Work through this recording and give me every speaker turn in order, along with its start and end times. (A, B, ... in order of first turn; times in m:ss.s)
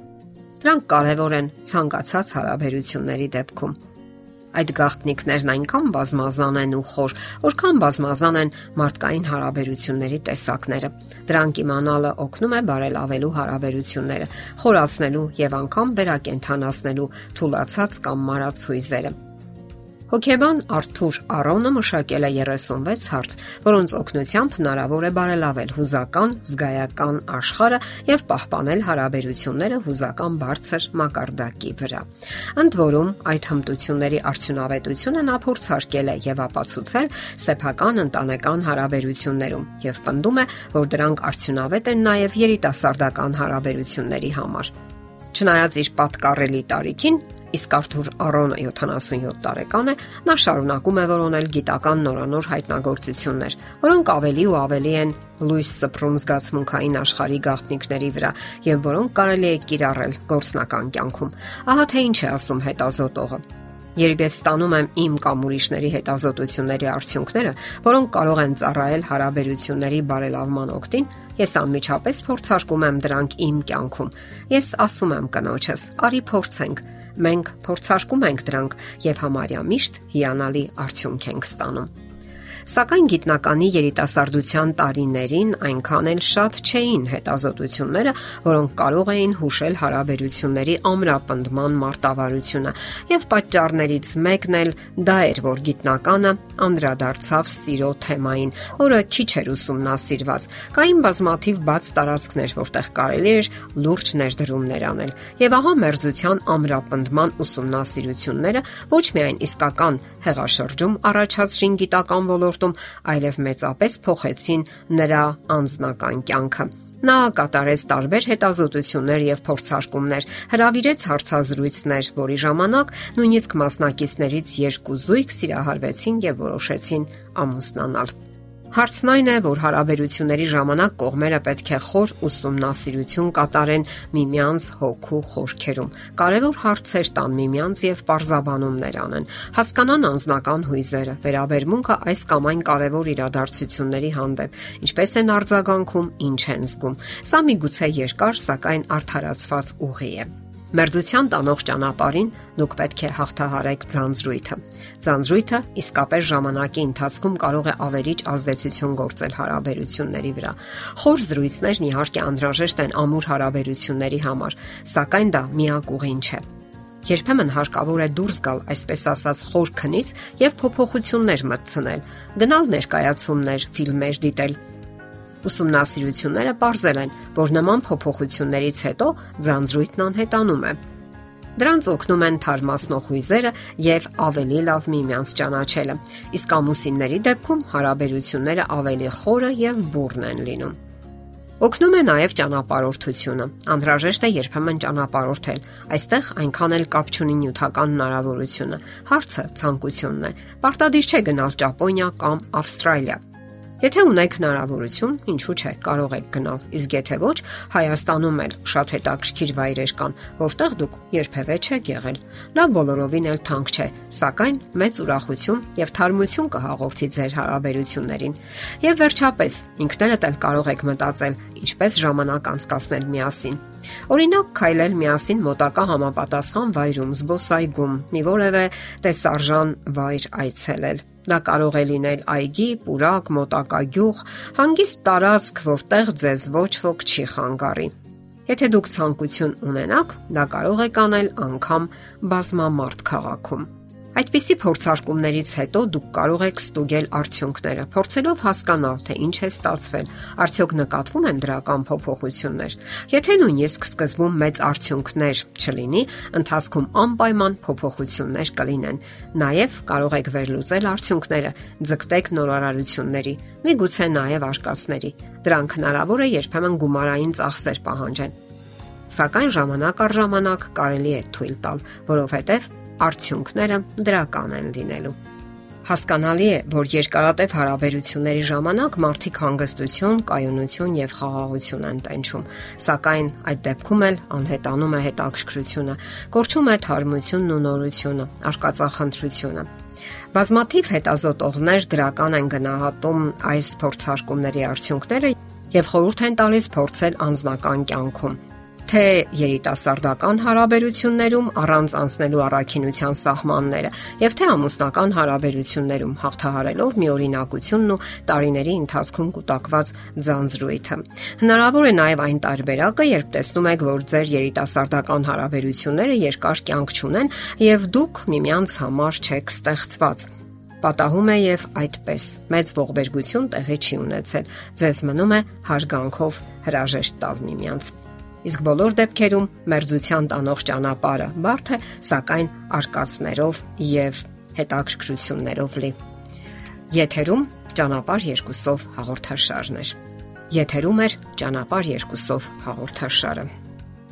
0:00.6-0:03.8 A
0:04.5-0:19.1 A
0:20.1-0:44.7 A
0:45.3-1:03.4 A
1:04.0-1:21.9 A
1:22.7-2:08.1 A
2:08.7-2:46.4 A
2:47.0-2:54.6 A
2:55.4-3:00.8 A
3:01.6-3:10.8 A
3:11.6-3:23.2 A
3:23.8-3:57.9 A
3:58.5-4:28.3 A
4:29.1-4:35.2 A
4:35.8-4:49.7 A
4:50.3-5:20.3 A
5:20.8-5:27.9 A
5:28.4-5:36.0 A
5:36.9-5:40.0 A
5:40.5-5:43.5 A